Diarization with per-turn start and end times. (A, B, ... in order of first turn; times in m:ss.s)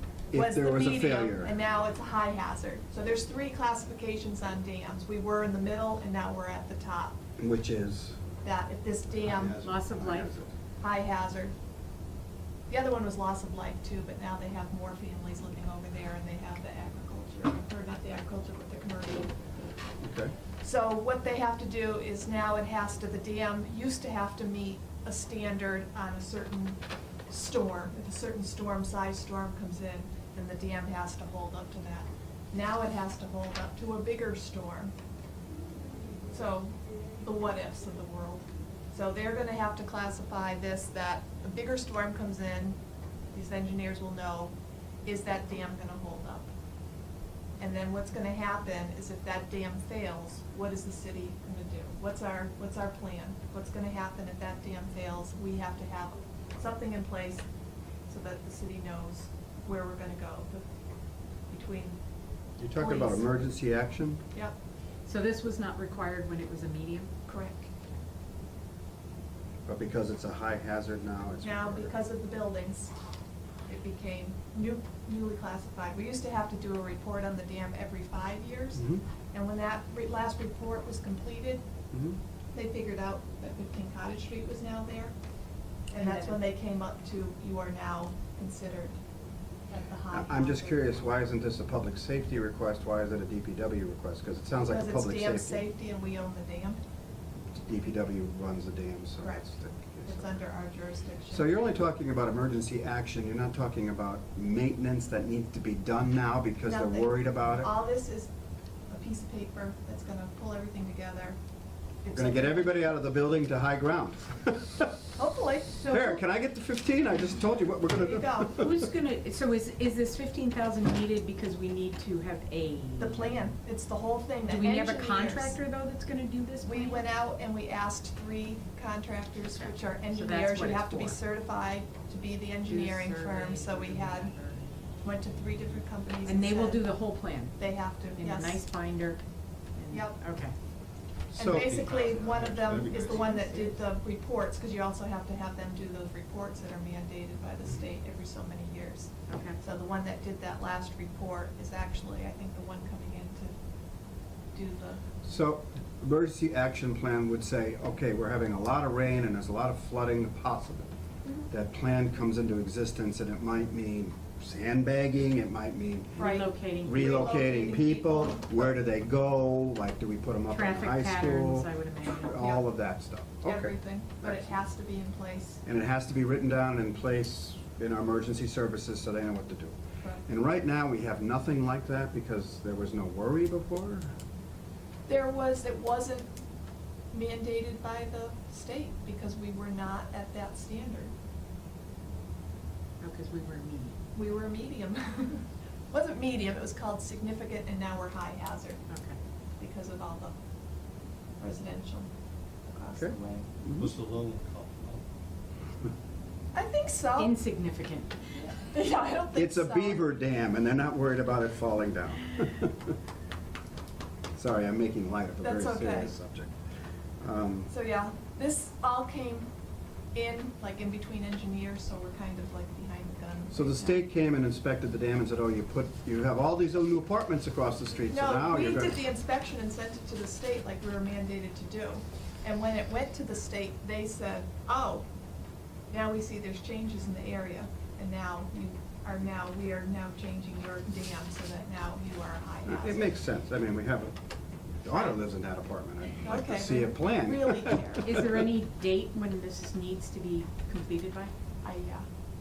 0:00.3-0:01.5 A
0:00.3-0:07.2 B
0:07.4-0:08.2 A
0:08.4-0:09.6 B
0:09.2-0:10.5 A
0:09.5-0:10.3 C
0:10.8-0:11.5 B
0:12.7-0:19.3 B
0:20.0-0:20.3 A
0:20.6-0:34.9 B
0:36.3-0:42.8 B
0:43.3-0:44.5 B
0:45.0-0:46.5 B
0:47.6-0:57.4 B
0:58.1-1:00.6 B
1:01.5-1:02.0 B
1:02.6-1:04.2 A
1:02.8-1:03.4 B
1:05.0-1:07.1 C
1:07.3-1:07.6 B
1:09.6-1:11.9 A
1:11.4-1:12.9 B
1:13.7-1:21.6 B
1:21.9-1:22.2 A
1:22.5-1:25.1 B
1:25.9-1:29.0 B
1:25.9-1:26.4 C
1:29.7-1:30.8 B
1:30.1-1:35.6 A
1:34.7-1:36.8 B
1:37.5-1:40.3 A
1:40.0-1:41.5 B
1:41.3-1:47.7 A
1:46.6-1:48.3 B
1:48.9-1:51.4 B
1:52.0-1:52.7 B
1:52.1-1:54.9 A
1:55.1-1:55.8 B
1:55.7-1:56.2 C
1:55.9-1:58.8 A
1:57.9-1:58.6 B
1:58.6-2:03.5 C
2:03.0-2:05.6 B
2:04.4-2:07.0 C
2:06.6-2:14.3 B
2:09.5-2:11.2 C
2:12.6-2:14.6 C
2:15.0-2:16.8 B
2:16.2-2:17.6 C
2:17.6-2:18.6 B
2:18.1-2:19.2 C
2:19.8-2:20.5 C
2:19.9-2:20.2 B
2:21.3-2:23.3 D
2:21.3-2:21.7 A
2:21.4-2:33.5 B
2:23.0-2:23.7 C
2:29.3-2:29.6 C
2:34.5-2:35.0 B
2:35.2-2:40.9 A
2:41.5-2:46.2 A
2:46.2-2:47.2 C
2:46.2-2:48.6 B
2:46.8-2:51.7 A
2:50.5-2:52.4 C
2:52.2-2:54.5 A
2:52.4-2:52.6 B
2:53.4-2:55.6 B
2:55.6-3:04.1 A
3:05.1-3:06.4 B
3:07.1-3:11.1 B
3:13.0-3:14.0 C
3:14.1-3:18.8 B
3:18.9-3:19.2 C
3:19.6-3:20.3 B
3:21.4-3:22.1 B
3:22.7-3:23.4 B
3:23.0-3:23.9 A
3:23.8-3:25.0 D
3:26.5-3:27.4 B
3:27.2-3:28.1 C
3:28.4-3:30.0 B
3:29.3-3:32.9 A
3:34.3-3:36.5 A
3:35.4-3:36.1 B
3:37.2-3:37.7 A
3:37.7-3:39.5 B
3:40.1-3:44.0 B
3:43.5-3:49.0 A
3:48.1-3:55.0 B
3:55.9-4:03.1 B
4:02.6-4:04.1 A
4:04.8-4:07.9 A
4:06.2-4:08.2 B
4:08.0-4:11.3 C
4:11.6-4:12.1 B